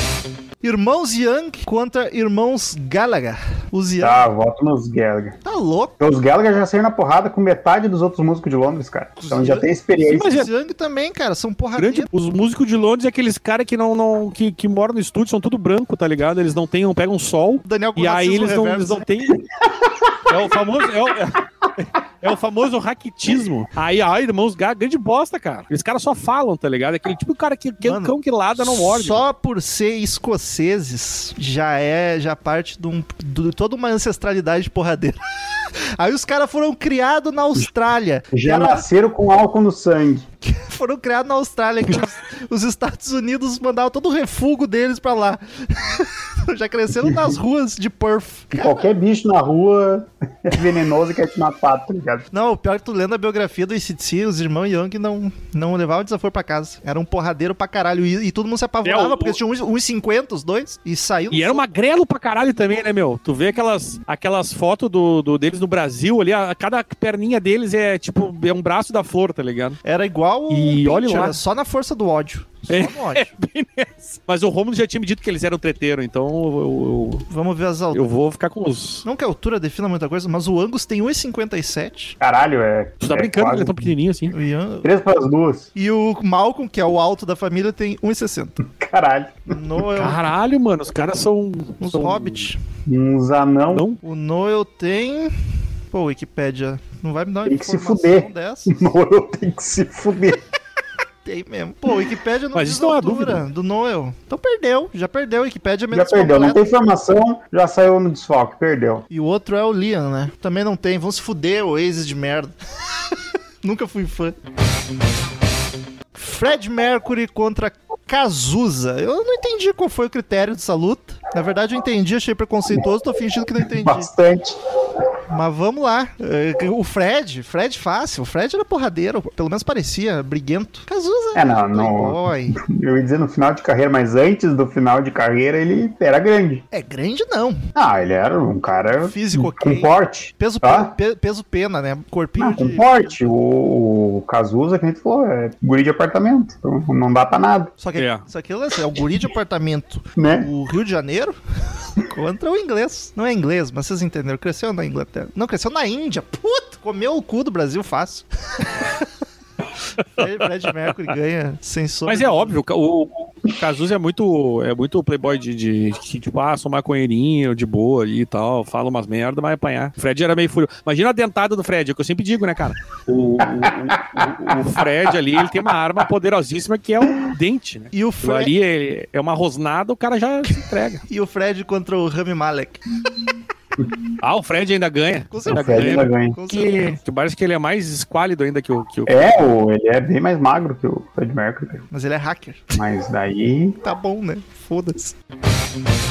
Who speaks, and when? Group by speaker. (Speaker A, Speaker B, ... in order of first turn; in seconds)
Speaker A: 0.6-4.2, 5.4-6.0, 9.2-12.1, 17.6-19.0, 27.8-38.9, 40.4-48.8, 52.3-61.6, 69.8-73.3, 77.3-78.0, 79.0-82.2, 84.3-84.9, 85.7-88.6, 89.5-90.2, 91.8-92.6, 94.0-95.3, 95.9-98.7, 101.2-106.6, 109.1-112.5, 113.1-114.3, 116.1-124.1, 125.3-132.6, 136.7-137.6, 139.0-143.1, 147.8-151.3, 151.9-159.1, 160.2-162.5, 177.9-178.5, 181.1-182.8, 185.3-187.0, 191.9-192.7, 193.8-195.2
Speaker B: 4.0-5.4, 6.0-10.4, 19.6-20.2, 38.3-40.2, 47.0-47.4, 48.5-52.2, 82.2-83.9, 84.8-85.7, 88.6-89.6, 92.9-93.8, 97.5-100.4, 105.9-109.0, 123.8-124.6, 131.3-136.6, 137.8-140.9, 142.4-147.7, 150.2-150.5, 173.4-174.3, 185.5-186.4, 189.1-191.8, 192.7-193.8
Speaker C: 10.1-10.4, 11.8-19.4, 20.3-29.2, 58.8-59.4, 61.3-69.8, 70.5-71.4, 72.7-77.2, 77.9-79.0, 83.0-84.3, 90.0-92.5, 93.7-94.0, 102.5-103.4, 147.9-148.2, 162.1-181.0, 184.2-189.4